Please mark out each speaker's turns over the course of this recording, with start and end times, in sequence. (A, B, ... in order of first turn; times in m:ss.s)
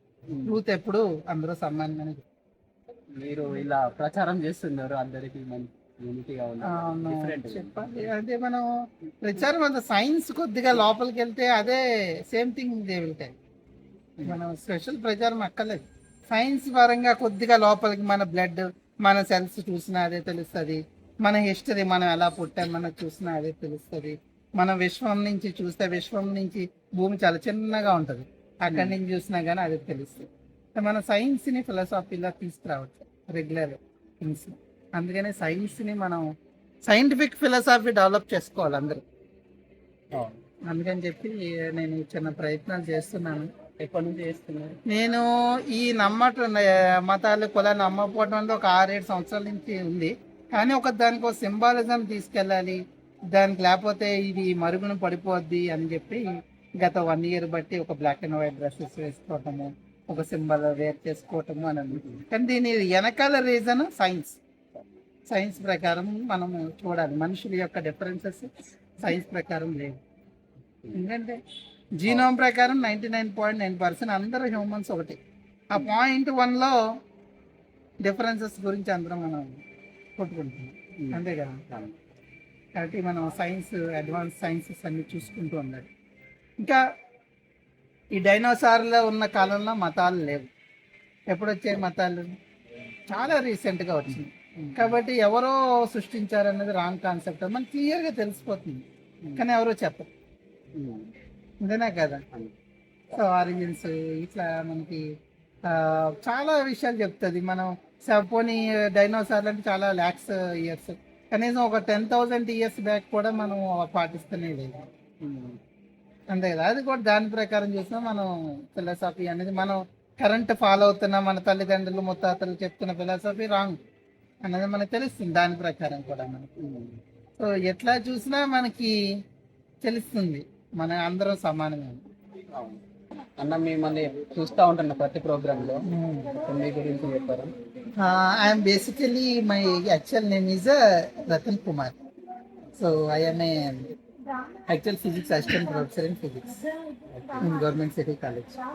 0:00.4-0:02.2 A
0:03.1-0:08.1 B
0:06.6-0:08.7 A
0:09.2-0:13.3 A
0:14.2-0:36.2 A
0:28.7-0:29.0 B
0:36.9-0:39.0 A
0:40.1-0:40.4 B
0:40.7-0:43.5 A
0:43.8-0:44.8 B
0:44.9-0:52.8 A
0:53.3-0:56.2 A
0:56.8-1:04.4 A
1:02.0-1:02.2 B
1:05.3-1:10.0 A
1:10.9-1:11.4 A
1:12.0-1:15.2 A
1:15.7-1:16.8 A
1:18.0-1:19.6 A
1:20.2-1:21.6 A
1:21.0-1:21.9 B
1:22.8-1:25.9 A
1:28.1-1:30.5 A
1:31.3-1:32.3 A
1:33.1-1:38.8 A
1:34.6-1:35.0 B
1:39.4-1:40.1 A
1:40.8-1:41.1 B
1:41.6-1:42.2 A
1:43.1-1:45.0 A
1:45.7-1:54.8 A
1:55.2-1:55.6 B
1:56.3-2:03.8 A
2:04.4-2:06.5 A
2:06.6-2:07.0 B
2:07.4-2:09.0 A
2:09.8-2:12.0 A
2:12.5-2:12.8 B
2:13.4-2:17.6 B
2:15.8-2:16.4 A
2:18.0-2:22.0 A
2:22.8-2:23.9 A
2:24.7-2:26.6 A
2:27.1-2:27.5 B
2:27.4-2:28.6 A